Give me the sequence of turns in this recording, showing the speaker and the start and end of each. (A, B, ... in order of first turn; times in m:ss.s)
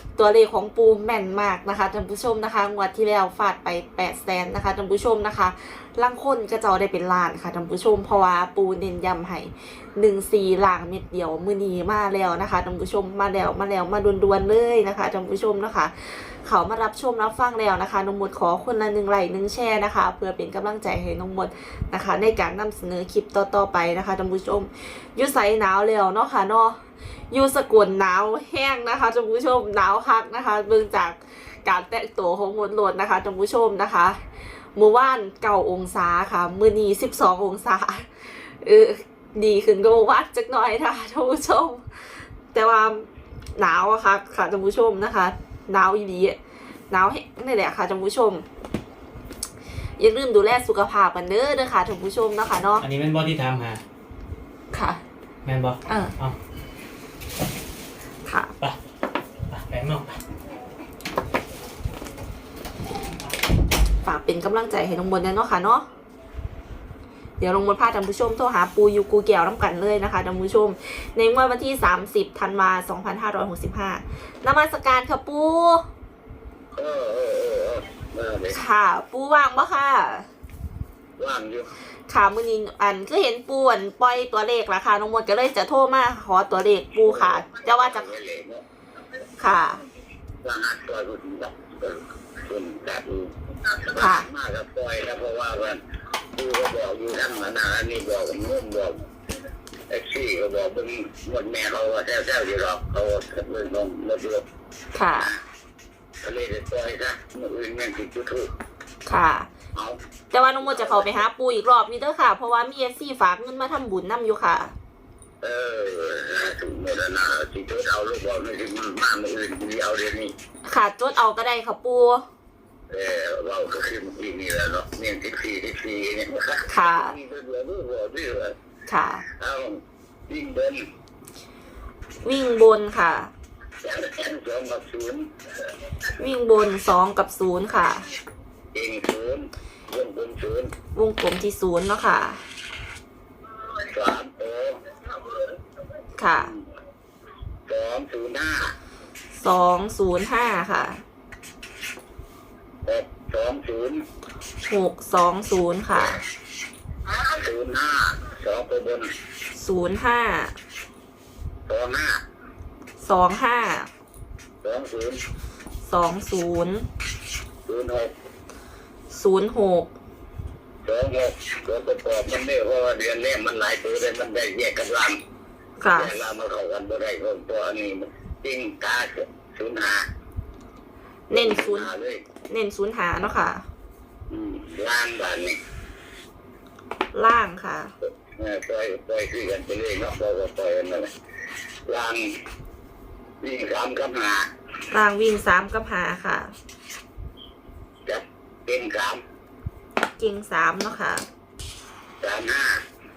0:00.2-0:26.8 A
0:27.3-0:34.2 A
0:34.7-0:43.1 A
0:43.6-0:46.4 A
0:46.9-0:48.4 A
0:50.0-0:52.8 A
0:52.8-0:53.8 B
0:54.7-0:55.0 A
0:55.4-0:56.4 B
0:55.8-0:56.1 A
0:58.2-0:58.5 A
0:59.5-1:00.2 B
1:04.0-1:05.8 A
1:07.4-1:15.8 A
1:16.7-1:18.6 C
1:18.5-1:20.3 A
1:21.2-1:21.7 C
1:22.1-1:28.1 A
1:27.0-1:28.6 C
1:29.4-1:29.8 A
1:30.4-1:35.8 C
1:34.0-1:34.3 A
1:36.3-1:39.0 C
1:39.9-1:44.4 C
1:44.9-1:45.3 A
1:46.2-1:48.5 C
1:49.0-1:49.5 A
1:50.3-1:54.7 A
1:50.6-1:51.2 C
1:55.4-2:00.3 C
2:00.6-2:02.2 A
2:02.9-2:08.6 C
2:06.7-2:07.2 A
2:08.9-2:09.2 A
2:09.3-2:10.8 C
2:12.2-2:13.3 A
2:13.8-2:15.3 C
2:16.2-2:18.1 A
2:18.7-2:20.7 C
2:20.9-2:22.4 A
2:23.8-2:24.8 C
2:26.2-2:26.5 A
2:27.7-2:28.7 C
2:29.3-2:31.0 A
2:32.8-2:34.0 C
2:34.6-2:36.2 A
2:35.9-2:36.2 C
2:37.0-2:39.1 C
2:39.5-2:40.5 A
2:41.7-2:42.2 C
2:43.0-2:43.9 A
2:44.6-2:45.2 C
2:45.8-2:46.9 A
2:47.6-2:48.1 C
2:49.1-2:49.9 A
2:50.8-2:55.2 C
2:55.8-2:56.1 A
2:55.9-3:00.0 C
3:01.3-3:01.9 A
3:01.3-3:02.2 C
3:02.5-3:03.6 A
3:04.3-3:05.6 C
3:07.1-3:07.9 A
3:08.3-3:11.1 C
3:11.9-3:12.3 C
3:13.4-3:14.5 C
3:14.9-3:16.5 A
3:18.0-3:19.2 C
3:20.2-3:21.2 A
3:22.2-3:22.8 C